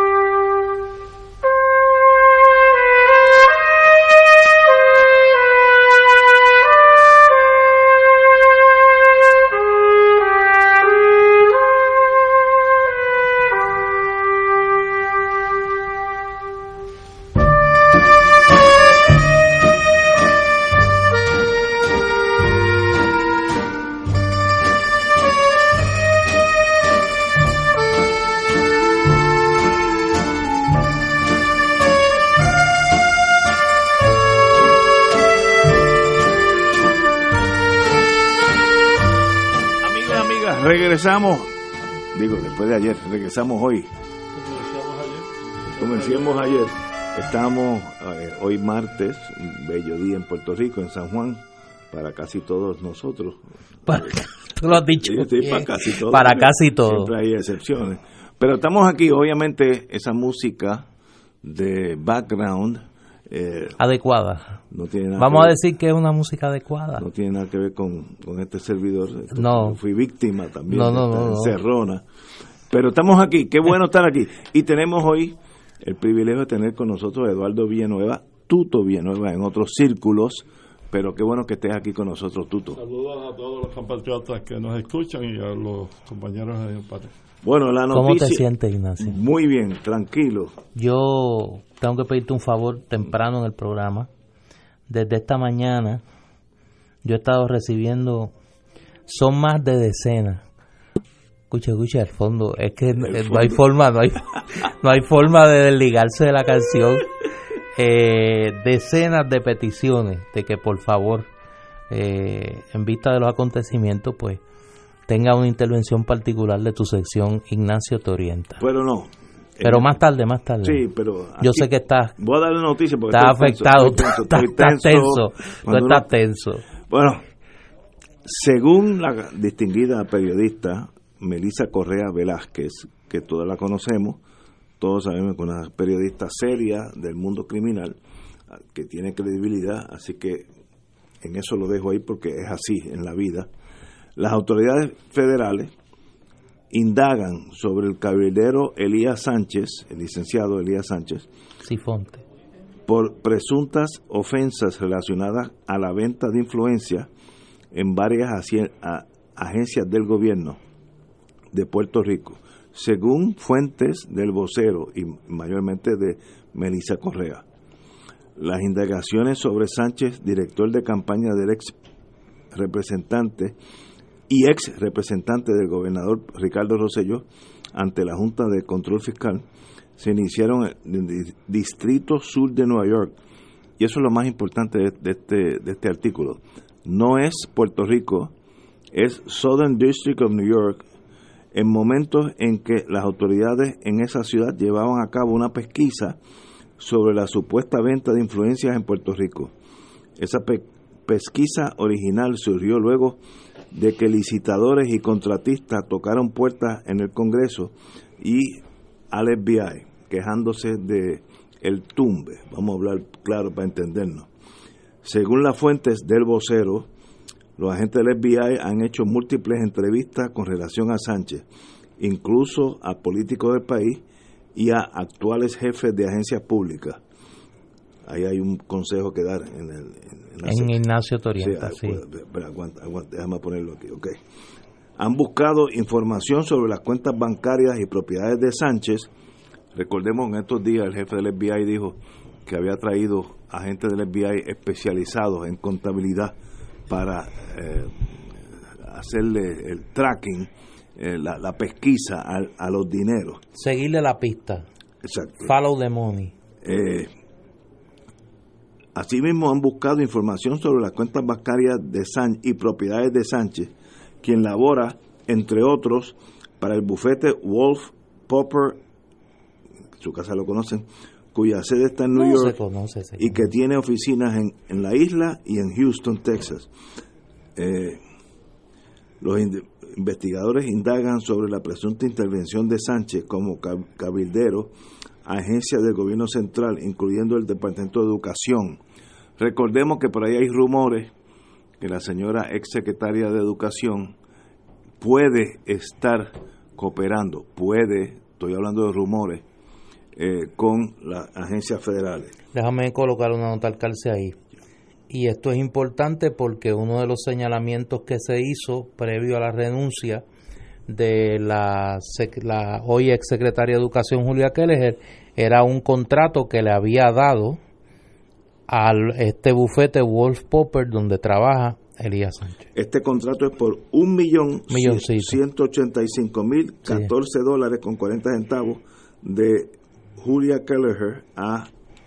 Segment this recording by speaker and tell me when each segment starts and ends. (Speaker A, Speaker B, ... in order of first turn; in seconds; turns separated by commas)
Speaker A: 39.8-41.5, Speaker A: 42.1-43.9, Speaker B: 44.3-46.4, Speaker A: 45.8-51.4, Speaker A: 51.9-54.2, Speaker C: 53.9-57.1, Speaker A: 55.0-60.9, Speaker A: 61.4-63.8, Speaker C: 63.8-64.5, Speaker A: 64.7-65.5, Speaker C: 65.2-67.0, Speaker A: 67.0-72.0, Speaker C: 69.3-69.8, Speaker C: 70.7-71.5, Speaker A: 72.7-82.8, Speaker B: 82.7-87.1, Speaker A: 87.4-88.5, Speaker C: 87.9-89.2, Speaker A: 89.0-90.5, Speaker C: 90.8-94.1, Speaker C: 94.9-96.0, Speaker C: 97.0-98.3, Speaker C: 99.1-100.4, Speaker C: 101.5-107.0, Speaker A: 103.1-103.5, Speaker C: 107.8-111.3, Speaker C: 111.9-114.4, Speaker C: 115.1-118.6, Speaker A: 118.6-119.9, Speaker C: 119.6-120.8, Speaker A: 120.6-126.1, Speaker C: 121.4-122.1, Speaker C: 123.1-126.6, Speaker A: 126.9-127.2, Speaker A: 128.2-134.2, Speaker A: 134.8-137.9, Speaker A: 138.7-140.4, Speaker A: 141.2-143.5, Speaker A: 144.2-145.7, Speaker A: 146.7-151.3, Speaker C: 151.7-152.2, Speaker A: 152.9-157.1, Speaker A: 157.7-160.6, Speaker A: 161.5-167.4, Speaker A: 168.4-171.7, Speaker A: 172.5-173.5, Speaker A: 174.3-179.4, Speaker A: 180.0-183.1, Speaker A: 183.8-188.3, Speaker A: 188.9-190.8, Speaker A: 191.5-196.2, Speaker A: 196.8-199.5, Speaker A: 200.2-203.2, Speaker A: 203.7-214.3, Speaker A: 215.0-216.9, Speaker A: 217.6-221.4, Speaker A: 222.0-224.0, Speaker A: 224.5-227.0, Speaker A: 228.0-230.8, Speaker C: 230.4-232.0, Speaker A: 231.4-234.2, Speaker A: 235.0-239.1, Speaker A: 239.7-246.3, Speaker A: 246.9-253.4, Speaker C: 253.6-254.6, Speaker A: 255.0-255.5, Speaker C: 255.4-256.3, Speaker A: 256.6-257.1, Speaker A: 258.9-263.7, Speaker A: 264.2-268.8, Speaker A: 270.0-272.6, Speaker C: 272.1-273.4, Speaker A: 273.2-276.7, Speaker A: 277.6-278.0, Speaker A: 279.2-284.7, Speaker A: 285.2-288.8, Speaker A: 289.4-291.1, Speaker A: 291.8-294.1, Speaker A: 295.0-299.4, Speaker A: 300.1-302.3, Speaker C: 302.5-304.4, Speaker C: 305.1-310.2, Speaker C: 310.9-317.6, Speaker C: 318.7-322.6, Speaker A: 322.7-331.7, Speaker C: 324.7-325.4